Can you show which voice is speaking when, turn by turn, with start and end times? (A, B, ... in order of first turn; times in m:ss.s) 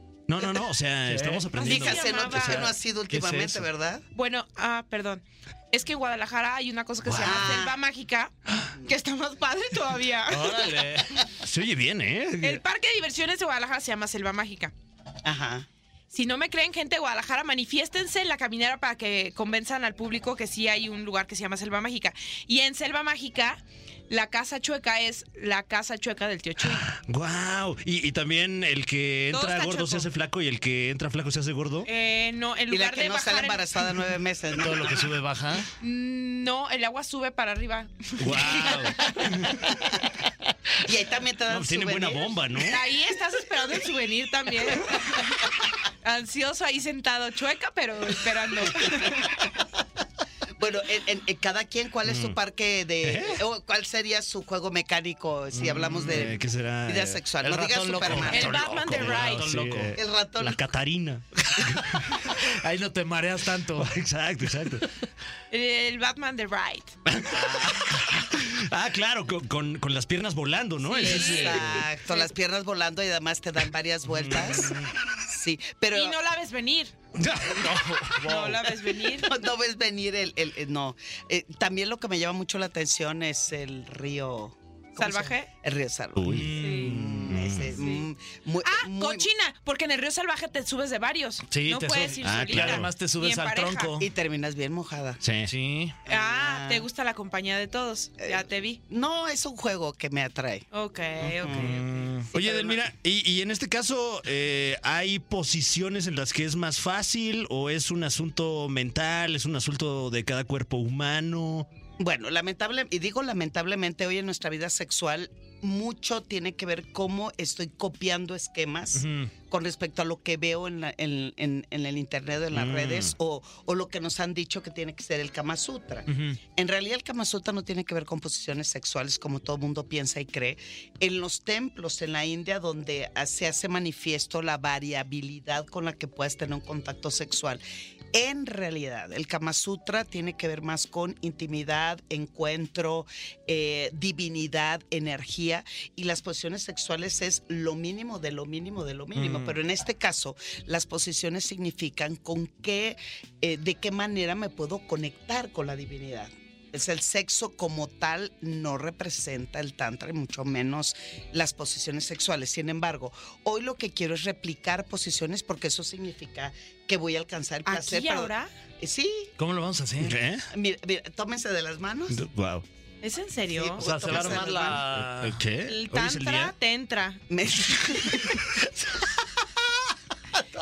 0:00.3-0:03.6 A
0:01.1-0:01.5 B
0:01.5-0:02.7 C
0:01.6-0:04.0 D
0:04.1-0:10.8 C
0:07.0-0:07.4 A
0:07.2-0:07.7 D
0:10.3-0:11.1 B
0:11.4-0:12.6 A
0:12.4-0:14.7 C
0:15.2-0:15.7 D
0:16.1-0:26.9 C
0:26.6-0:31.9 A
0:29.3-0:30.1 C
0:31.8-0:33.6 C
0:32.7-0:35.1 D
0:34.6-0:35.7 B
0:35.8-0:39.7 C
0:38.2-0:39.7 A
0:40.8-0:42.4 D
0:41.5-0:42.8 A
0:42.6-0:45.5 C
0:46.0-0:49.4 C
0:48.8-0:49.2 D
0:50.6-0:58.7 D
0:52.1-0:52.4 A
0:53.0-0:53.4 A
0:55.6-0:57.2 A
0:55.6-0:56.3 B
0:57.4-1:00.0 B
0:58.0-1:02.4 A
0:58.3-0:59.5 C
1:00.0-1:00.6 D
1:02.3-1:04.0 B
1:03.8-1:04.9 A
1:05.5-1:07.0 C
1:07.1-1:11.9 A
1:10.8-1:12.3 C
1:11.0-1:16.2 D
1:14.1-1:14.9 A
1:15.9-1:16.9 C
1:17.2-1:18.6 A
1:18.2-1:19.3 C
1:18.9-1:29.3 D
1:25.0-1:25.5 C
1:26.2-1:27.8 A
1:26.2-1:27.1 B
1:26.6-1:27.0 C
1:27.7-1:28.1 C
1:28.6-1:33.9 C
1:31.5-1:34.1 B
1:32.2-1:32.9 A
1:34.0-1:35.2 D
1:35.2-1:35.5 A
1:35.4-1:36.0 B
1:36.1-1:36.9 D
1:36.1-1:38.8 C
1:38.2-1:40.7 D
1:40.7-1:41.8 C
1:41.2-1:42.8 D
1:41.5-1:51.7 A
1:52.0-2:17.6 D
2:02.5-2:03.1 A
2:06.1-2:06.4 B
2:18.1-2:49.3 D
2:29.2-2:29.5 A
2:47.6-2:48.5 C
2:49.4-2:50.2 B
2:50.0-2:50.5 A
2:50.5-2:52.2 D
2:52.1-2:52.6 A
2:53.0-2:53.9 C
2:53.5-2:54.9 D
2:53.8-2:55.4 B
2:54.0-2:56.5 A
2:55.6-2:57.2 C
2:57.3-2:59.4 D